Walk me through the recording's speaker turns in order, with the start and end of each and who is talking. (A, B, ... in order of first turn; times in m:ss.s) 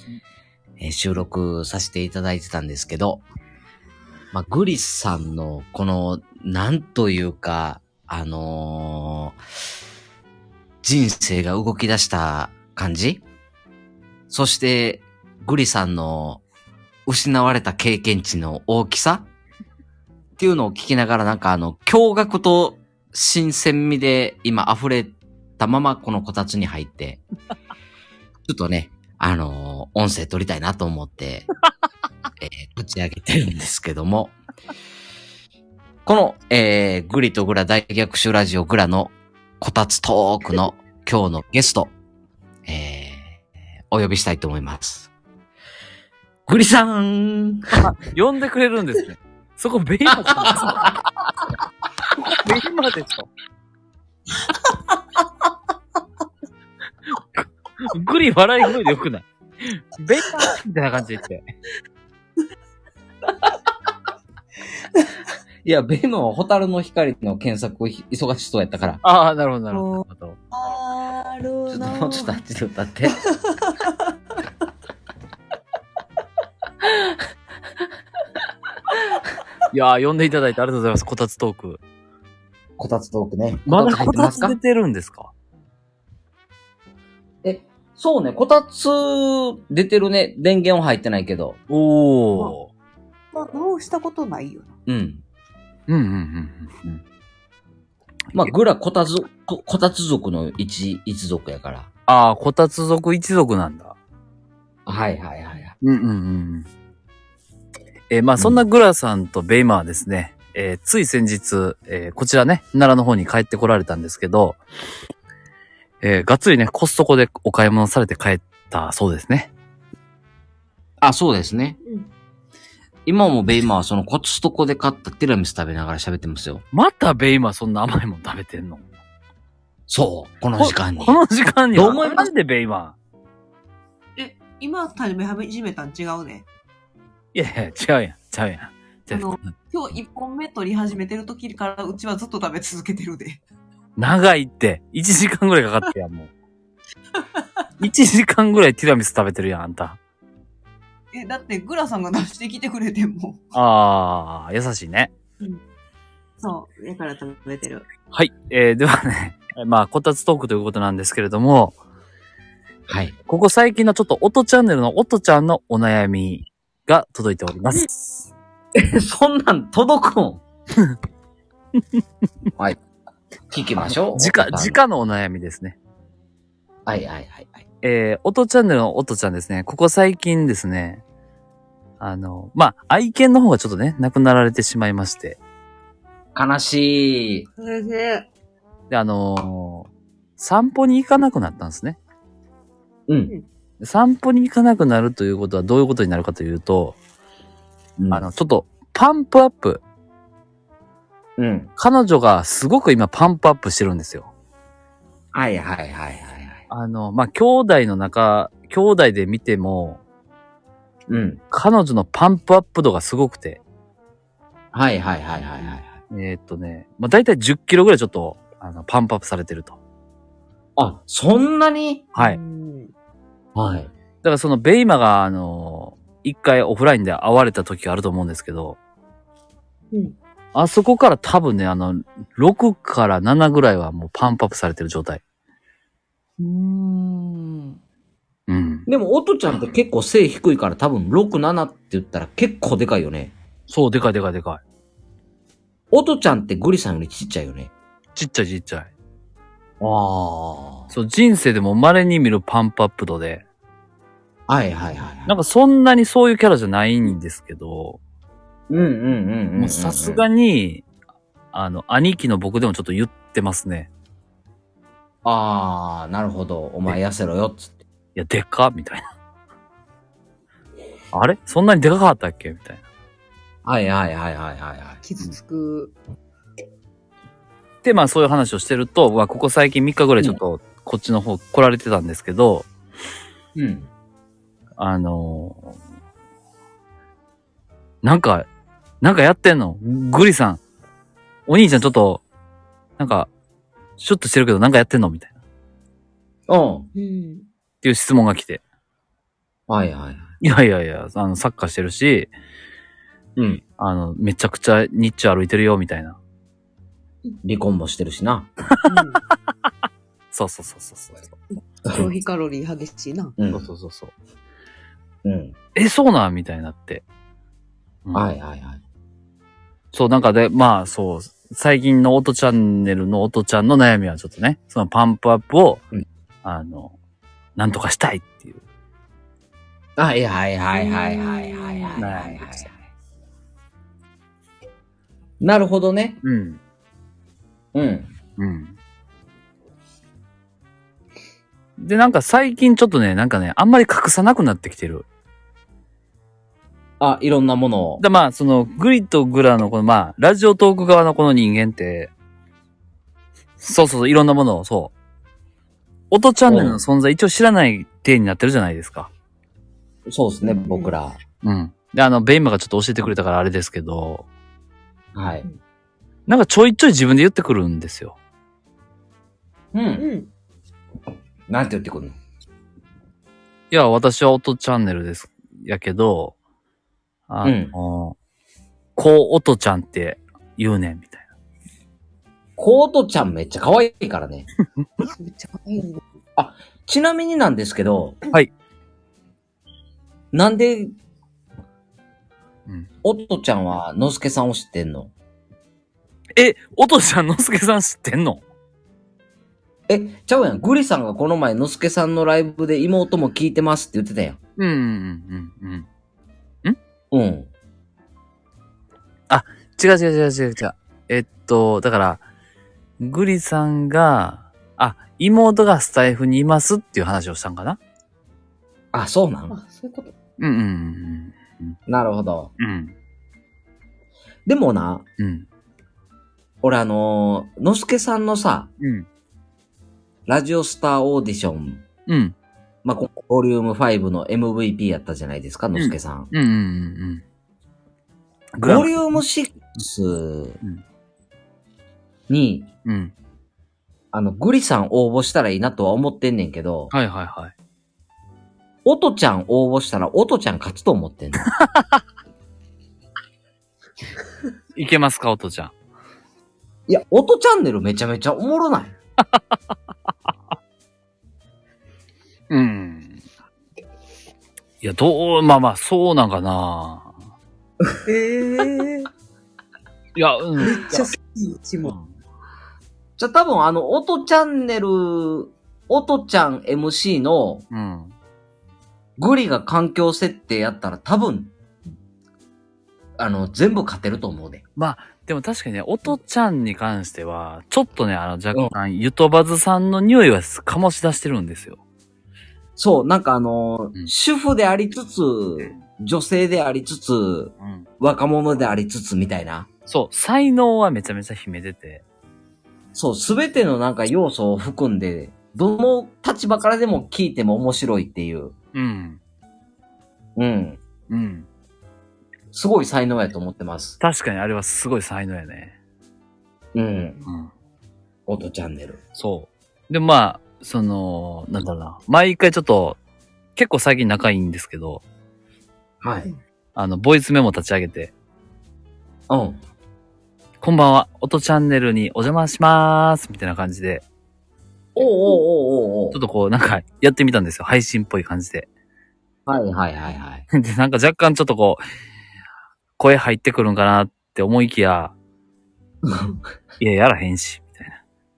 0:00.8-0:03.2 A
0:04.3-0:09.4 A
0:10.8-0:13.2 A
0:14.3-0:16.4 A
0:17.1-0:19.3 A
0:20.4-0:27.2 A
0:28.5-0:31.5 A
0:32.4-0:34.4 A
0:36.0-0:41.9 A
0:42.7-0:45.1 A
0:46.5-0:47.6 A
0:47.8-0:50.9 B
0:52.1-0:53.3 B
0:57.1-1:01.4 B
1:05.6-1:09.0 A
1:09.0-1:10.4 B
1:09.7-1:12.3 C
1:11.7-1:13.2 A
1:13.2-1:14.1 C
1:19.7-1:21.8 B
1:22.8-1:24.6 A
1:23.7-1:25.3 B
1:27.4-1:31.6 A
1:31.7-1:32.7 B
1:33.3-1:34.7 C
1:34.9-1:35.2 A
1:35.9-1:37.0 B
1:38.3-1:41.9 A
1:42.1-1:44.0 B
1:44.9-1:45.8 A
1:45.8-1:46.7 B
1:48.1-1:54.6 B
1:56.0-1:59.5 B
2:01.0-2:01.8 A
2:01.8-2:02.1 C
2:03.1-2:06.6 A
2:06.7-2:08.8 B
2:09.9-2:11.2 A
2:10.6-2:13.0 B
2:11.8-2:12.3 A
2:14.2-2:16.5 C
2:17.3-2:19.5 B
2:19.1-2:23.4 C
2:24.0-2:26.3 B
2:27.8-2:30.0 B
2:31.1-2:33.4 C
2:33.5-2:35.1 B
2:36.4-2:37.9 C
2:38.1-2:41.8 B
2:42.9-2:43.1 A
2:43.3-2:48.3 B
2:48.8-2:50.4 A
2:53.5-2:54.8 A
2:53.8-2:55.8 B
2:56.9-2:57.6 A
2:57.8-3:01.0 B
3:02.0-3:05.4 B
3:06.4-3:07.5 A
3:07.6-3:08.3 C
3:08.9-3:12.0 B
3:13.1-3:13.3 A
3:13.8-3:17.0 B
3:18.0-3:18.3 A
3:18.1-3:19.8 B
3:21.4-3:21.7 A
3:21.8-3:24.3 B
3:25.3-3:26.6 A
3:26.7-3:30.0 B
3:31.1-3:31.4 A
3:31.5-3:33.6 B
3:34.7-3:35.9 A
3:36.1-3:39.8 B
3:40.8-3:42.0 A
3:42.1-3:42.4 B
3:42.2-3:42.9 C
3:43.6-3:43.9 A
3:44.2-3:48.8 B
3:50.6-3:55.2 B
3:56.4-3:57.8 C
3:58.5-3:58.9 B
3:58.9-4:03.4 A
4:03.7-4:04.6 B
4:05.9-4:07.7 A
4:08.2-4:08.9 B
4:09.8-4:10.9 A
4:10.9-4:13.4 B
4:14.5-4:15.4 A
4:15.3-4:18.0 B
4:18.7-4:20.2 A
4:19.6-4:20.9 B
4:21.5-4:23.9 B
4:25.2-4:27.8 A
4:28.2-4:29.0 B
4:31.1-4:32.8 B
4:33.6-4:35.0 A
4:35.0-4:36.0 C
4:37.8-4:42.7 B
4:43.6-4:43.9 A
4:44.8-4:45.7 B
4:48.0-4:48.5 B
4:49.0-4:50.6 B
4:51.5-4:52.2 B
4:53.0-4:53.3 B
4:54.0-4:55.3 B
4:56.5-4:56.9 A
4:57.0-4:57.5 C
4:57.8-4:58.6 B
4:59.7-5:00.3 A
5:00.4-5:02.3 B
5:03.4-5:03.6 A
5:03.8-5:06.2 B
5:07.4-5:08.5 A
5:08.8-5:09.2 C
5:10.3-5:11.4 B
5:11.9-5:13.4 C
5:13.4-5:13.7 A
5:13.5-5:14.1 B
5:15.2-5:15.6 A
5:15.8-5:17.0 B
5:18.1-5:18.3 B
5:18.1-5:18.8 A
5:19.9-5:25.8 B
5:26.4-5:26.9 B
5:27.6-5:28.6 B
5:30.0-5:32.8 A
5:30.7-5:32.1 C
5:32.0-5:32.7 B
5:35.4-5:36.2 A
5:36.2-5:36.6 B
5:37.7-5:38.1 A
5:38.4-5:38.8 B
5:41.8-5:45.0 B
5:47.0-5:48.0 A
5:48.0-5:52.1 B
5:53.6-5:54.9 B
5:56.1-5:59.1 B
5:56.5-5:56.8 A
6:00.1-6:01.2 A
6:00.4-6:00.9 C
6:01.4-6:04.2 B
6:05.2-6:05.5 A
6:06.3-6:08.2 B
6:09.7-6:10.1 A
6:10.0-6:10.3 C
6:11.5-6:12.2 A
6:13.7-6:16.4 B
6:17.3-6:18.2 B
6:17.4-6:17.7 A
6:19.0-6:21.3 B
6:22.6-6:24.5 A
6:25.0-6:26.0 C
6:26.4-6:28.2 A
6:30.3-6:30.9 A
6:33.0-6:35.1 A
6:36.4-6:38.4 B
6:39.9-6:44.4 A
6:44.6-6:45.9 B
6:47.1-6:47.5 A
6:49.3-6:52.2 B
6:53.0-6:57.8 B
6:58.9-6:59.6 A
6:59.5-7:00.1 C
7:00.4-7:01.8 B
7:01.9-7:02.5 A
7:02.6-7:02.9 B
7:04.5-7:05.0 A
7:05.2-7:05.5 B
7:06.6-7:08.7 A
7:08.8-7:09.1 B
7:10.3-7:11.8 A
7:12.1-7:12.4 B
7:12.8-7:16.3 A
7:15.8-7:17.2 B
7:18.6-7:19.2 B
7:18.6-7:20.6 A
7:22.3-7:22.7 A
7:22.9-7:23.1 B
7:24.1-7:26.9 A
7:26.9-7:27.5 B
7:28.8-7:31.5 A
7:31.4-7:31.9 B
7:34.8-7:35.7 B
7:36.9-7:38.9 A
7:39.2-7:39.6 B
7:42.5-7:43.2 B
7:44.8-7:47.1 B
7:48.1-7:49.1 C
7:50.2-7:51.1 B
7:50.6-7:52.0 C
7:51.8-7:52.2 B
7:53.2-7:57.6 A
7:57.7-7:58.2 B
7:59.2-8:01.5 A
8:03.2-8:04.6 A
8:04.8-8:11.8 B
8:12.8-8:19.7 A
8:17.6-8:17.9 B
8:19.9-8:22.0 B
8:22.9-8:28.5 A
8:28.7-8:29.2 B
8:30.4-8:30.8 A
8:31.1-8:31.5 B
8:32.5-8:34.0 A
8:34.0-8:35.8 B
8:36.8-8:37.2 A
8:38.3-8:39.0 A
8:39.2-8:43.0 B
8:43.6-8:45.0 B
8:46.0-8:46.3 A
8:46.8-8:48.1 B
8:49.3-8:49.6 A
8:50.6-8:54.0 B
8:55.0-8:56.2 A
8:56.1-8:58.7 B
8:59.5-9:00.4 A
9:00.5-9:01.8 B
9:03.0-9:05.1 B
9:06.0-9:06.4 A
9:06.8-9:08.0 B